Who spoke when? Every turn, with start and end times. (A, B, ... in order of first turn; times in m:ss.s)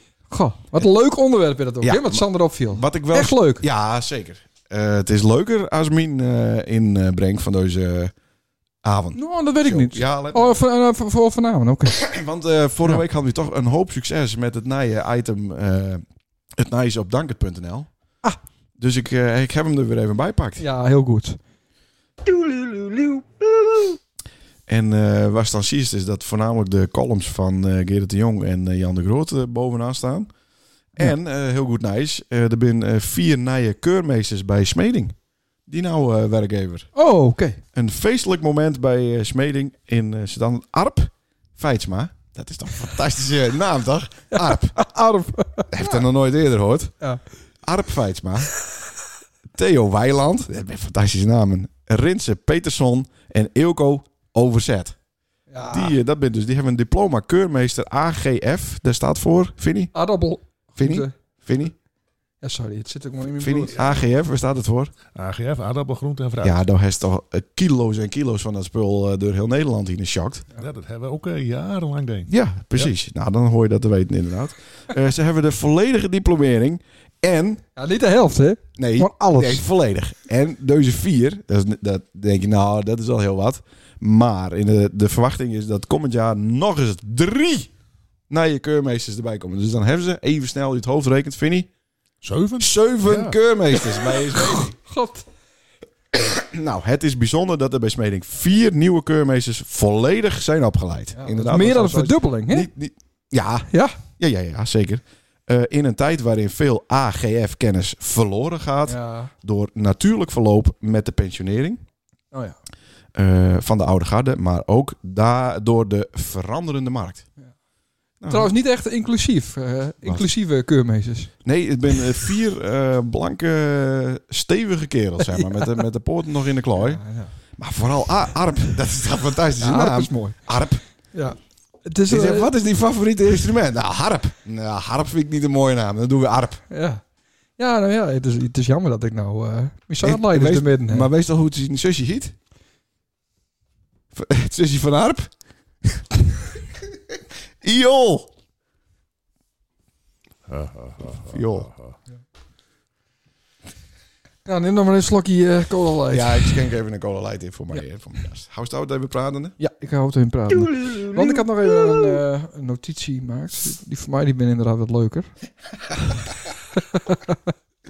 0:00.3-0:03.6 A
0:01.8-0:08.1 B
0:08.8-0:10.6 B
0:09.1-0:12.0 A
0:11.9-0:16.0 B
0:16.6-0:17.9 B
0:18.8-0:20.6 B
0:20.6-0:21.4 A
0:22.2-0:23.8 A
0:24.7-0:30.3 B
0:31.0-0:35.1 B
0:35.7-0:36.9 B
0:36.9-0:37.6 A
0:37.7-0:44.8 B
0:44.3-0:45.9 A
0:45.7-0:46.9 B
0:47.6-0:48.5 B
0:49.5-0:55.0 B
0:55.5-0:56.0 A
0:55.7-0:59.9 B
0:59.9-1:01.1 A
1:00.8-1:01.7 B
1:02.4-1:03.8 A
1:03.4-1:04.9 B
1:05.1-1:06.6 C
1:06.4-1:10.4 B
1:10.6-1:12.9 C
1:12.3-1:17.6 B
1:17.8-1:19.6 A
1:18.8-1:27.7 B
1:28.3-1:31.7 B
1:32.2-1:33.4 C
1:32.6-1:34.8 B
1:34.3-1:35.2 A
1:36.1-1:51.8 B
1:41.2-1:42.7 A
1:43.7-1:44.0 A
1:48.8-1:49.3 A
1:52.3-1:52.6 A
1:53.1-1:57.2 B
1:58.2-1:58.5 B
1:58.3-2:01.3 A
2:01.4-2:07.0 B
2:05.2-2:05.8 A
2:06.8-2:07.3 A
2:07.6-2:10.8 B
2:09.6-2:10.4 A
2:11.1-2:12.5 A
2:12.1-2:16.6 B
2:16.7-2:17.0 A
2:17.6-2:21.1 A
2:20.0-2:22.3 B
2:24.1-2:25.3 B
2:26.9-2:28.3 B
2:30.5-2:31.9 C
2:31.3-2:31.7 B
2:34.4-2:36.6 A
2:36.1-2:39.6 B
2:39.6-2:45.3 A
2:40.7-2:41.5 B
2:46.7-2:47.5 A